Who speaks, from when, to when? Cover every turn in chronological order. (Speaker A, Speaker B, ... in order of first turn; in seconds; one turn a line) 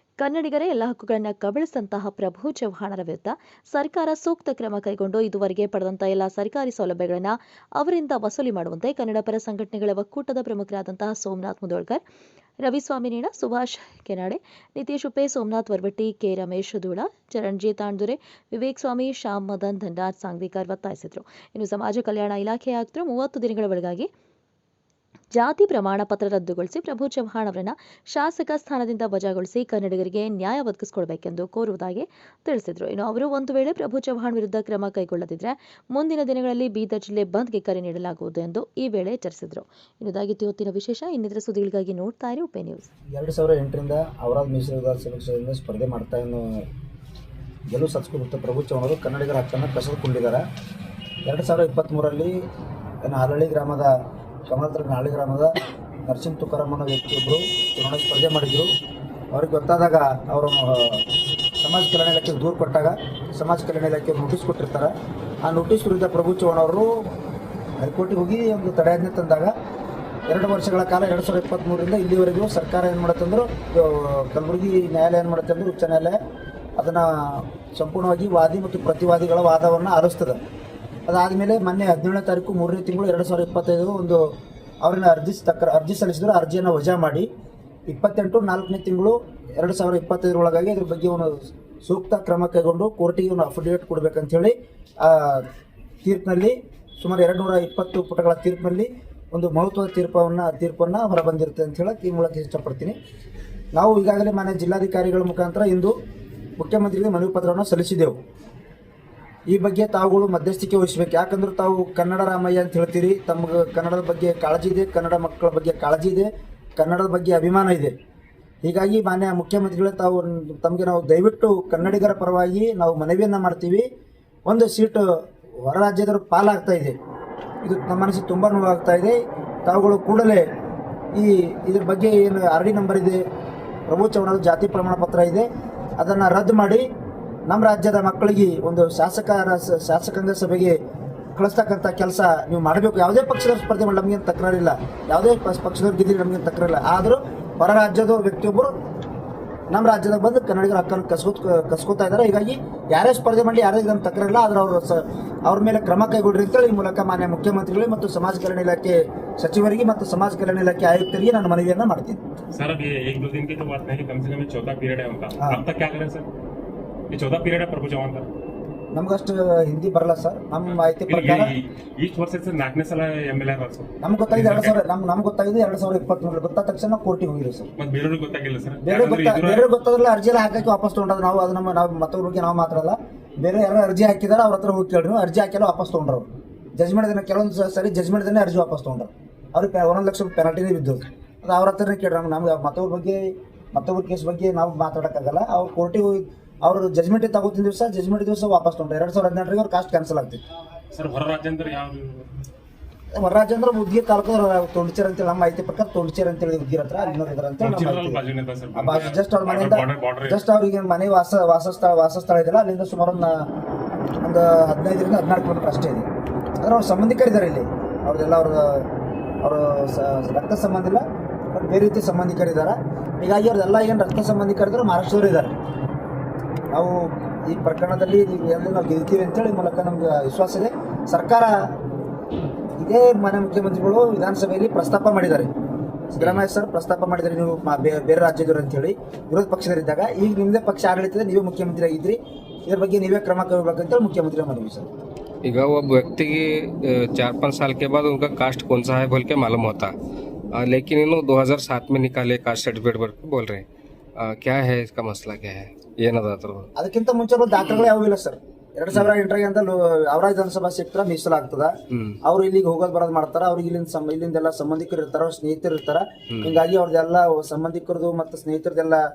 Speaker A: 0.2-12.0
Speaker A: 12.6-24.1
Speaker A: 25.3-42.9
Speaker B: 43.1-46.7
Speaker B: 47.7-50.4
Speaker B: 51.2-52.4
Speaker B: 53.0-53.9
Speaker B: 54.5-55.5
Speaker B: 56.0-58.7
Speaker B: 59.3-61.0
Speaker B: 61.6-64.9
Speaker B: 65.4-67.1
Speaker B: 67.8-69.5
Speaker B: 70.3-76.2
Speaker B: 76.8-80.4
Speaker B: 81.1-84.2
Speaker B: 84.8-87.3
Speaker B: 87.9-95.5
Speaker B: 96.0-102.9
Speaker B: 103.7-105.9
Speaker B: 106.6-108.2
Speaker B: 109.5-117.9
Speaker B: 118.6-123.8
Speaker B: 124.5-125.0
Speaker B: 125.6-126.9
Speaker B: 127.6-130.4
Speaker B: 131.1-133.2
Speaker B: 133.9-135.4
Speaker B: 136.0-136.8
Speaker B: 137.5-140.8
Speaker B: 141.3-148.7
Speaker B: 149.7-162.2
Speaker C: 162.5-166.3
Speaker C: 167.1-168.3
Speaker B: 168.9-171.5
Speaker C: 170.7-174.7
Speaker B: 174.0-177.7
Speaker C: 177.8-179.7
Speaker B: 178.8-200.4
Speaker C: 200.9-202.3
Speaker B: 203.1-208.2
Speaker C: 207.6-210.4
Speaker B: 208.7-213.3
Speaker B: 214.2-216.1
Speaker B: 216.6-218.9
Speaker B: 219.4-225.5
Speaker B: 226.7-231.5
Speaker B: 232.8-235.5
Speaker B: 236.1-244.9
Speaker D: 245.4-249.9
Speaker D: 250.5-253.6
Speaker D: 254.2-256.7
Speaker B: 256.8-261.7
Speaker D: 261.9-262.2
Speaker B: 262.2-269.0
Speaker D: 266.3-266.6